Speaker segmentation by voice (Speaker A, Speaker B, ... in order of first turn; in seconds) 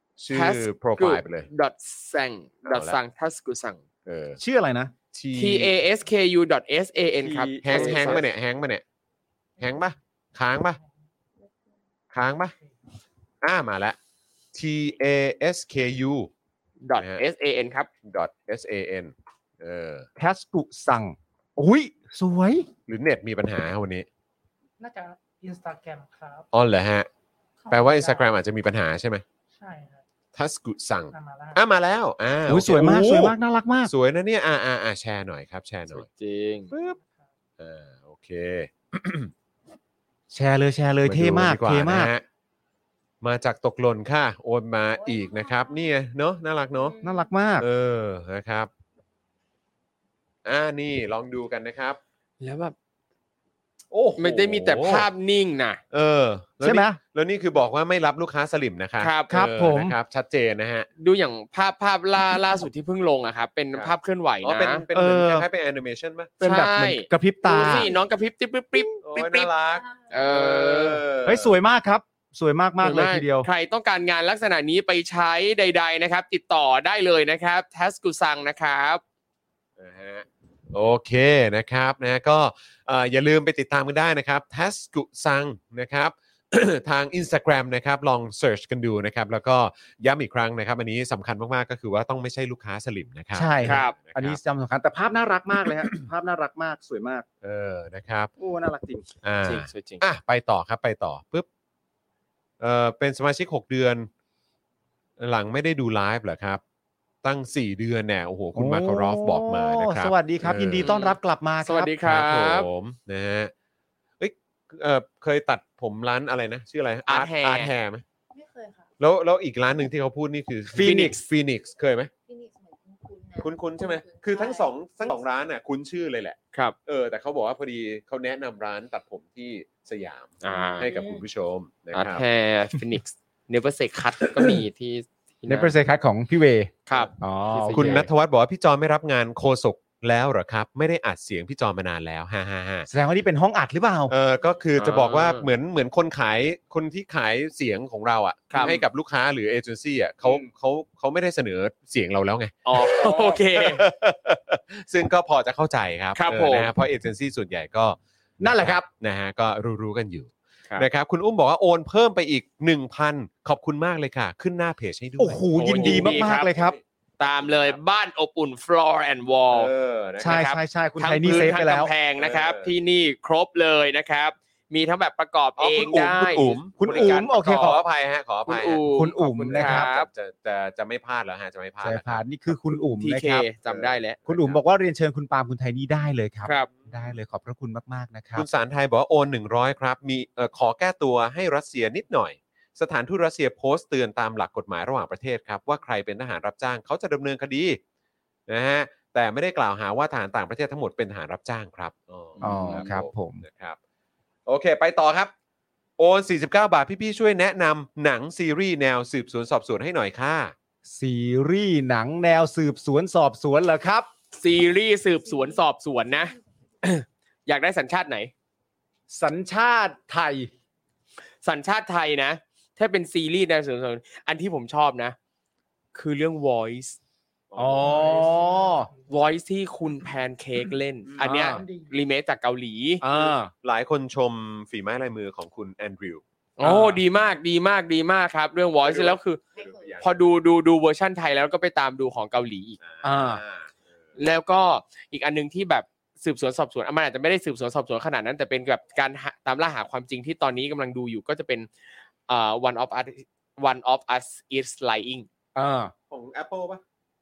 Speaker A: 0.2-1.5, 2.7-3.0, 4.0-4.4, 5.1-5.7, 7.6-8.8, 9.6-10.8, 12.1-12.5, 13.4-14.0, 14.5-16.3, 16.9-17.2, 18.0-20.1, 22.9-24.1, 26.5-27.1, 27.7-29.2, 30.3-36.0, 36.7-37.0, 37.6-39.3, 41.0-42.2, 43.2-47.0, 47.6-48.7, 50.4-52.0, 53.9-55.1, 55.9-60.9, 63.7-66.4, 69.0-71.5, 79.8-94.4, 97.4-98.3, 99.2-101.5, 102.6-104.1, 105.2-106.6, 107.2-110.9, 112.0-113.5, 114.2-118.0, 119.0-122.1, 123.4-132.2, 137.7-142.9, 144.1-152.6, 153.5-167.8, 169.5-170.5, 172.2-172.7, 175.6-182.5, 183.7-184.6, 186.7-187.1, 188.3-197.8, 198.5-203.8, 204.4-205.3, 206.0-210.5, 227.5-228.3, 231.1-231.5, 233.1-236.2, 238.8-240.2, 242.8-244.0, 256.1-256.8
Speaker B: 0.3-3.8, 5.3-8.2, 16.8-17.9, 35.9-36.7, 52.4-52.7, 54.2-55.8, 59.0-59.3, 61.0-64.8, 66.4-69.5, 70.1-71.0, 72.8-79.0, 93.6-93.9, 99.4-100.0, 110.8-112.7, 117.1-117.7, 120.8-121.2, 130.4-130.9, 131.9-135.8, 136.9-138.1, 144.8-145.5, 148.5-148.8, 152.7-153.8, 156.2-156.7, 165.5-166.5, 167.2-169.7, 170.2-177.8, 178.4-180.1, 183.0-184.2, 186.4-186.7, 202.4-202.8, 214.4-218.3, 221.4-225.2, 225.9-227.0, 229.1-233.0, 236.6-239.4, 240.0-242.8, 244.2-251.7, 252.3-255.3
Speaker C: 4.4-4.9, 7.2-8.2, 20.2-22.7, 32.5-33.9, 40.3-42.1, 47.0-47.6, 56.6-57.0, 59.3-60.0, 64.9-65.5, 66.4-67.9, 71.2-73.5, 93.3-97.2, 98.4-99.1, 108.5-111.9, 120.7-121.2, 135.5-138.1, 142.9-144.1, 153.0-153.4, 158.4-158.9, 165.2-166.8, 170.2-171.9, 176.8-177.8, 178.9-179.9, 181.8-183.4, 184.2-188.4, 202.4-203.4, 210.9-214.1, 219.1-220.5, 227.6-228.9, 231.2-231.6, 233.0-233.5, 236.6-237.0, 243.0-243.4, 255.6-255.9
Speaker D: 24.8-26.5, 27.6-28.3, 29.6-30.0, 31.1-31.6, 36.7-37.2, 227.8-228.9, 231.5-231.9
Speaker E: 45.0-45.9, 46.8-47.1, 118.3-118.9, 122.3-125.2, 130.4-131.2, 239.5-240.1